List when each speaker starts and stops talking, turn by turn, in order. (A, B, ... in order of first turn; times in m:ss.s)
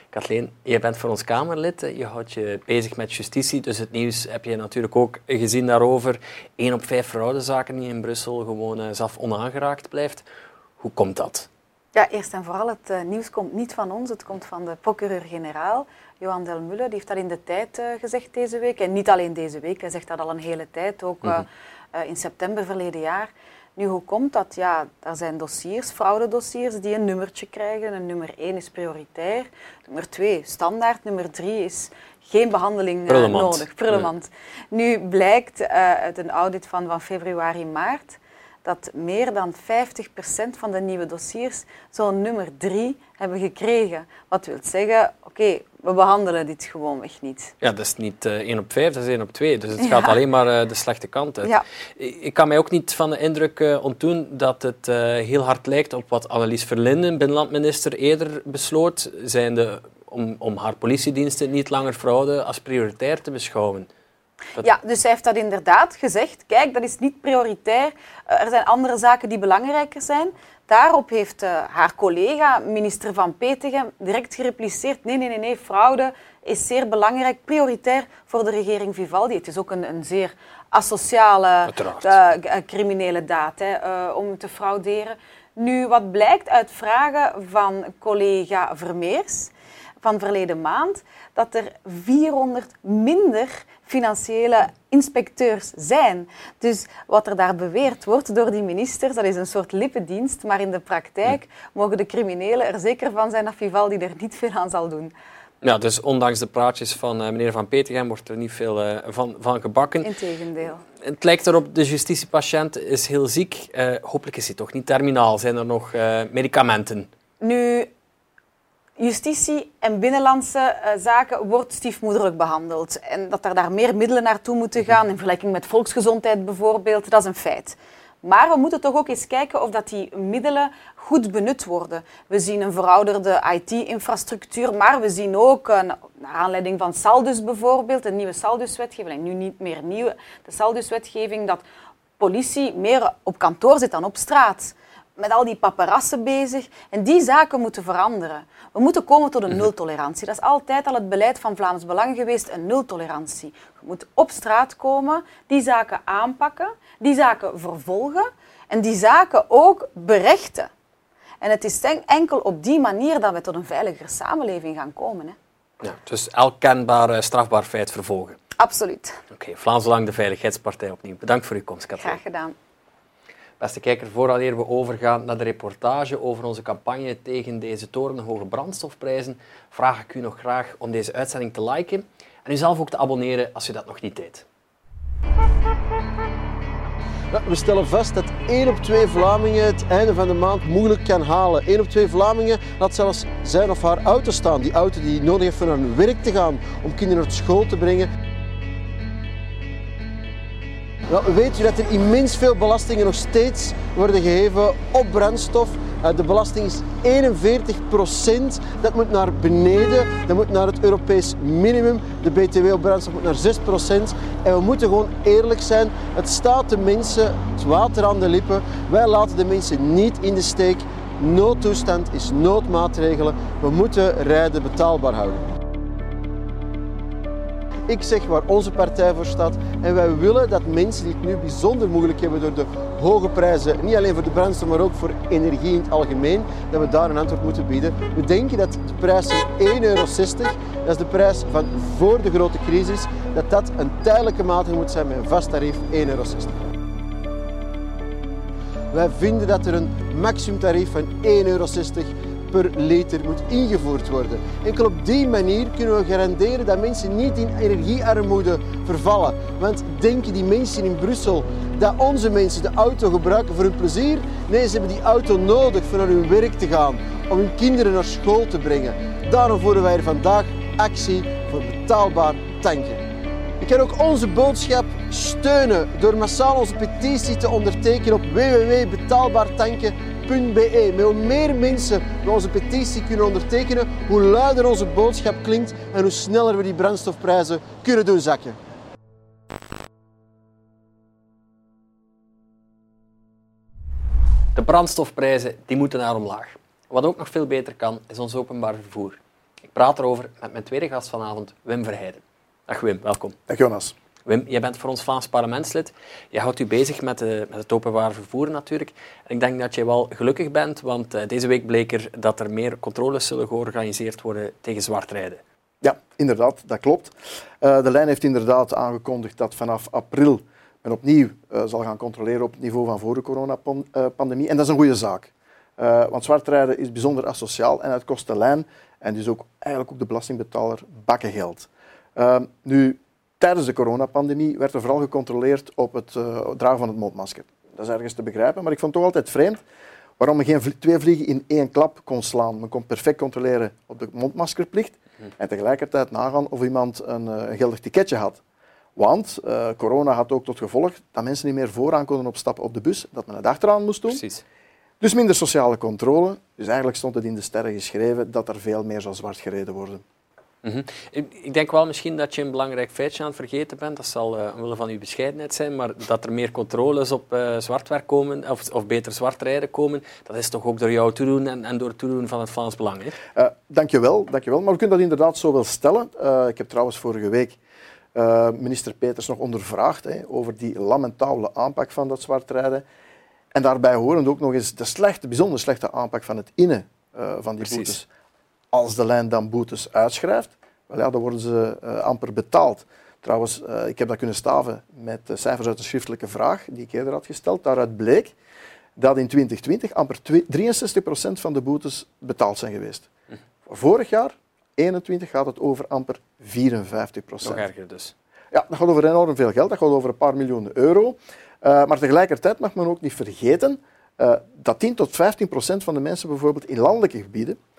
0:00.1-0:10.2 A
0:10.8-0:11.5 A
0:12.0-0:47.5 B
0:33.1-0:34.1 A
0:47.6-1:03.9 A
0:49.8-0:50.2 B
1:04.6-1:29.5 B
1:21.7-1:22.2 A
1:30.0-1:45.1 B
1:45.6-1:50.1 A
1:50.0-1:50.8 B
1:51.0-1:57.1 A
1:57.4-1:57.9 B
1:59.0-2:21.6 B
2:22.2-2:40.7 B
2:41.4-2:45.4 B
2:45.8-2:48.4 A
2:48.6-2:49.2 B
2:49.3-2:52.2 A
2:52.0-2:52.5 B
2:53.6-3:04.5 A
3:07.3-3:18.1 C
3:21.1-3:45.5 C
3:47.9-4:06.6 C
4:08.9-4:33.0 C
4:33.6-4:48.6 C
4:54.5-4:59.2 A
4:59.7-5:03.3 A
5:03.5-5:03.9 D
5:04.2-5:15.4 A
5:15.8-5:39.6 D
5:40.2-5:48.4 D
5:49.0-5:54.2 D
5:54.1-5:54.4 A
5:55.0-6:00.0 D
6:00.6-6:13.2 A
6:13.3-6:17.6 D
6:18.1-6:22.8 D
6:23.5-6:28.1 D
6:27.6-6:28.0 A
6:28.7-6:38.3 D
6:39.0-6:43.1 D
6:43.6-6:47.6 D
6:47.4-6:48.1 A
6:48.5-6:57.6 D